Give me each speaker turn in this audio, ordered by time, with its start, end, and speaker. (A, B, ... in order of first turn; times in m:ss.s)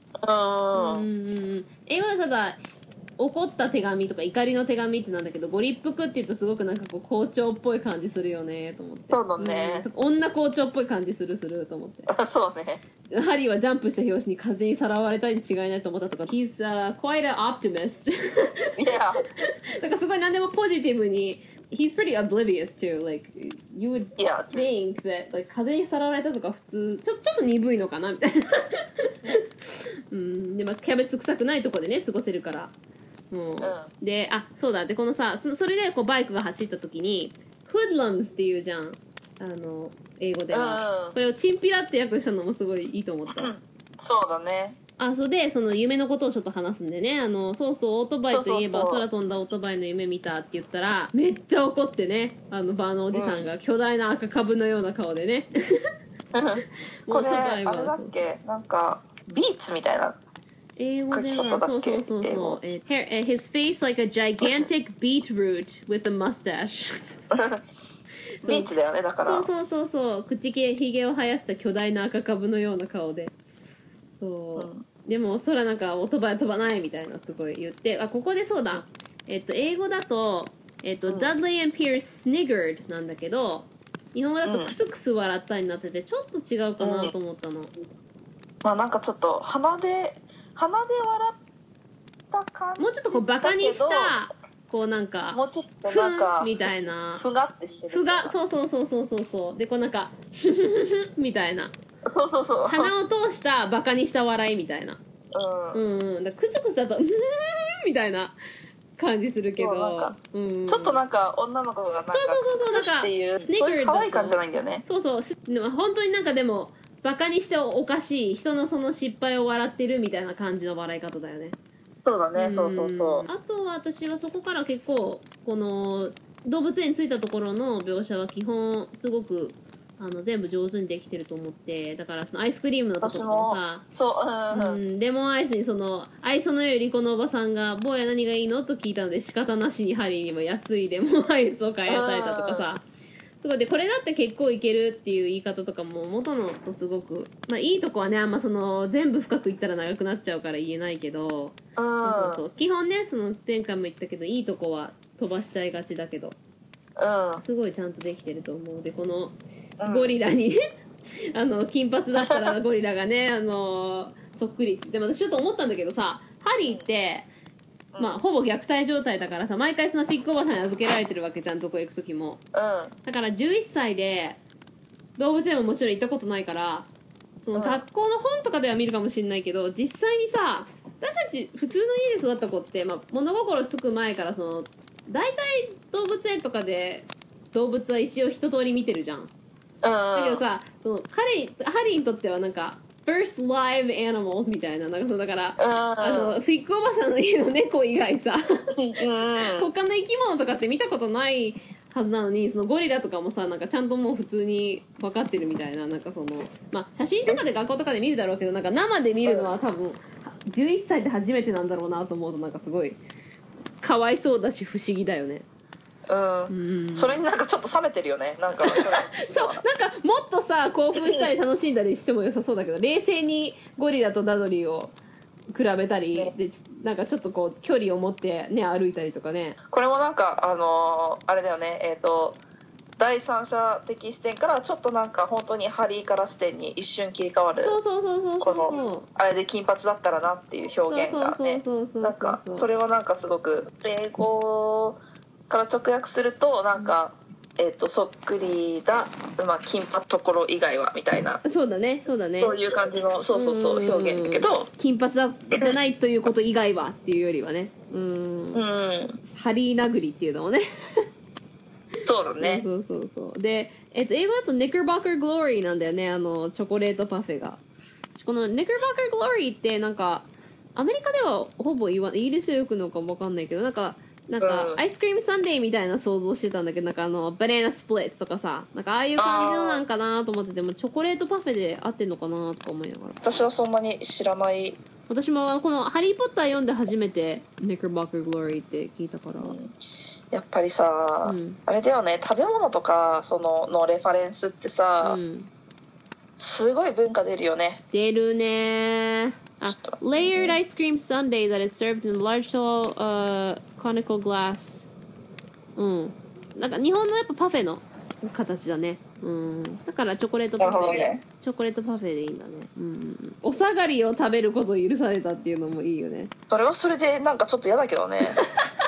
0:00.2-0:01.1 A
0:00.7-0:02.6 B
0:03.2-0:12.1 B
0:09.1-0:09.8 A
0:12.1-0:12.8 A
0:13.1-0:18.8 B
0:18.8-0:19.2 A
0:19.4-0:29.4 B
0:24.2-0:24.7 A
0:30.1-0:32.7 B
0:33.3-0:43.5 B
0:33.6-0:33.9 A
0:40.5-0:41.2 A
0:43.3-0:44.8 A
0:45.0-0:55.5 B
0:48.3-0:49.1 A
0:53.1-0:53.5 A
0:56.3-1:00.2 A
0:57.1-0:58.2 B
1:00.8-1:07.1 B
1:01.1-1:02.6 A
1:04.4-1:04.7 A
1:07.3-1:07.6 A
1:08.4-1:08.7 B
1:08.4-1:09.5 A
1:09.2-1:13.3 B
1:14.2-1:27.7 B
1:14.6-1:14.8 A
1:21.1-1:21.3 A
1:24.4-1:24.8 A
1:26.8-1:27.1 A
1:28.6-1:31.4 A
1:32.3-1:34.2 A
1:32.8-1:37.2 B
1:35.3-1:36.5 A
1:37.2-1:38.3 A
1:37.9-1:41.7 B
1:42.1-1:42.9 A
1:42.7-1:45.0 B
1:45.3-1:45.8 A
1:45.7-1:48.4 B
1:49.0-1:51.0 B
1:49.6-1:50.2 A
1:50.7-1:54.8 A
1:52.1-2:01.6 B
2:02.0-2:03.3 A
2:02.4-2:13.8 B
2:13.0-2:14.8 A
2:14.5-2:22.8 B
2:21.9-2:22.7 A
2:23.4-2:36.4 B
2:31.8-2:32.4 A
2:37.0-2:37.4 A
2:37.4-2:39.4 B
2:39.8-2:40.1 A
2:39.9-2:40.6 B
2:41.3-2:47.3 B
2:42.2-2:42.6 A
2:47.9-2:48.2 A
2:48.0-2:52.4 B
2:52.5-2:52.9 A
2:53.0-2:54.4 B
2:55.2-2:56.9 B
2:57.4-3:09.3 B
2:57.5-2:57.8 A
3:09.8-3:10.4 A
3:10.1-3:18.4 B
3:15.6-3:16.4 A
3:18.8-3:19.7 A
3:19.4-3:33.0 B
3:33.8-3:35.4 B
3:36.1-3:39.6 A
3:36.5-3:37.2 B
3:38.6-3:44.9 B
3:41.0-3:41.3 A
3:45.5-3:49.6 B
3:49.7-3:52.4 A
3:53.0-3:57.8 A
3:57.6-3:59.1 B
3:58.4-4:11.4 A
4:00.9-4:02.7 B
4:11.4-4:12.6 B
4:12.4-4:14.7 A
4:13.3-4:18.7 B
4:18.6-4:19.2 A
4:19.2-4:21.1 B
4:22.1-4:22.7 A
4:22.4-4:27.6 B
4:28.2-4:43.2 B
4:34.4-4:34.8 A
4:39.2-4:39.8 A
4:43.2-4:44.8 A
4:45.1-4:49.6 B
4:49.4-4:49.7 A
4:50.3-4:55.2 A
4:51.2-4:51.6 B
4:55.0-4:55.5 B
4:56.4-4:57.8 A
4:57.9-5:04.9 B
4:59.7-5:00.6 A
5:05.8-5:16.3 B
5:10.6-5:11.2 A
5:16.5-5:18.4 A
5:18.4-5:18.7 B